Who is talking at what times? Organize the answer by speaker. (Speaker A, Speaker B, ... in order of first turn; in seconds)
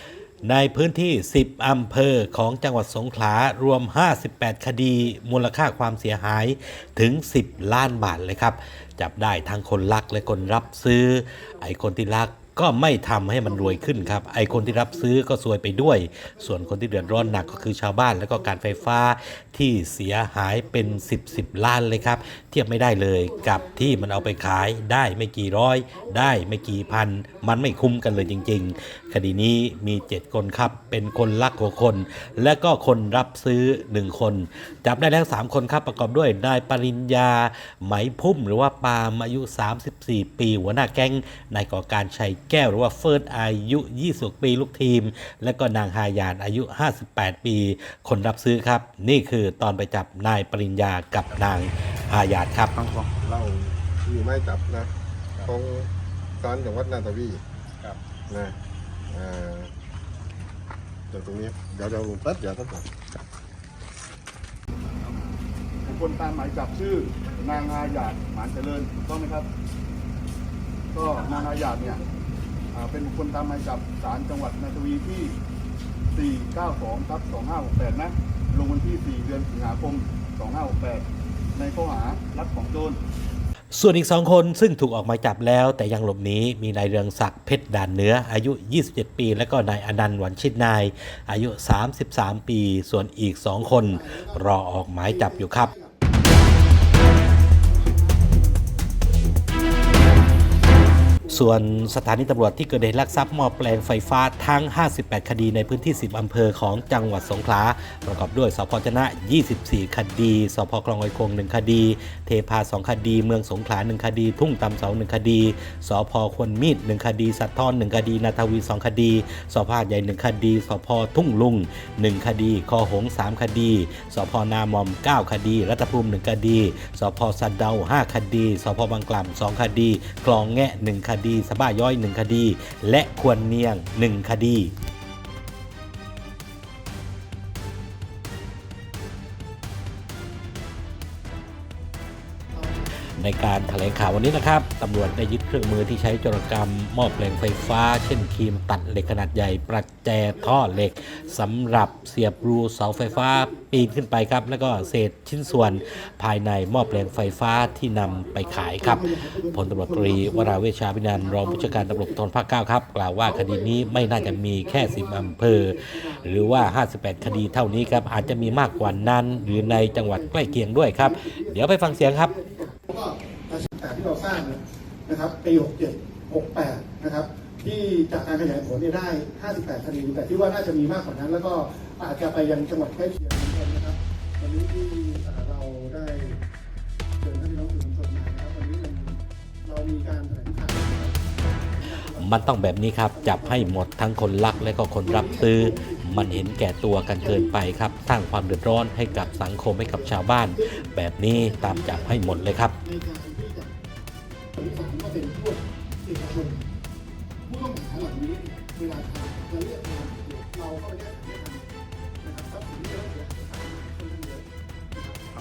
Speaker A: 0.4-52.7, 83.7-95.7, 101.3-134.7, 143.2-172.3, 191.8-202.8
Speaker B: 53.2-58.6, 59.1-59.7, 61.1-62.9
Speaker C: 65.8-69.5, 70.9-72.0, 72.7-75.3, 76.1-83.0
Speaker D: 94.1-94.4, 95.6-96.0, 97.6-98.6, 151.1-152.1, 153.4-153.7, 158.8-159.3, 159.9-160.1, 163.7-163.9, 165.1-165.4, 167.4-170.3, 171.2-171.6, 172.2-186.4, 187.2-191.2, 191.8-192.1, 195.2-196.1, 197.6-198.1, 198.6-200.1, 201.4-203.7, 204.6-206.6, 207.4-211.6, 212.2-215.2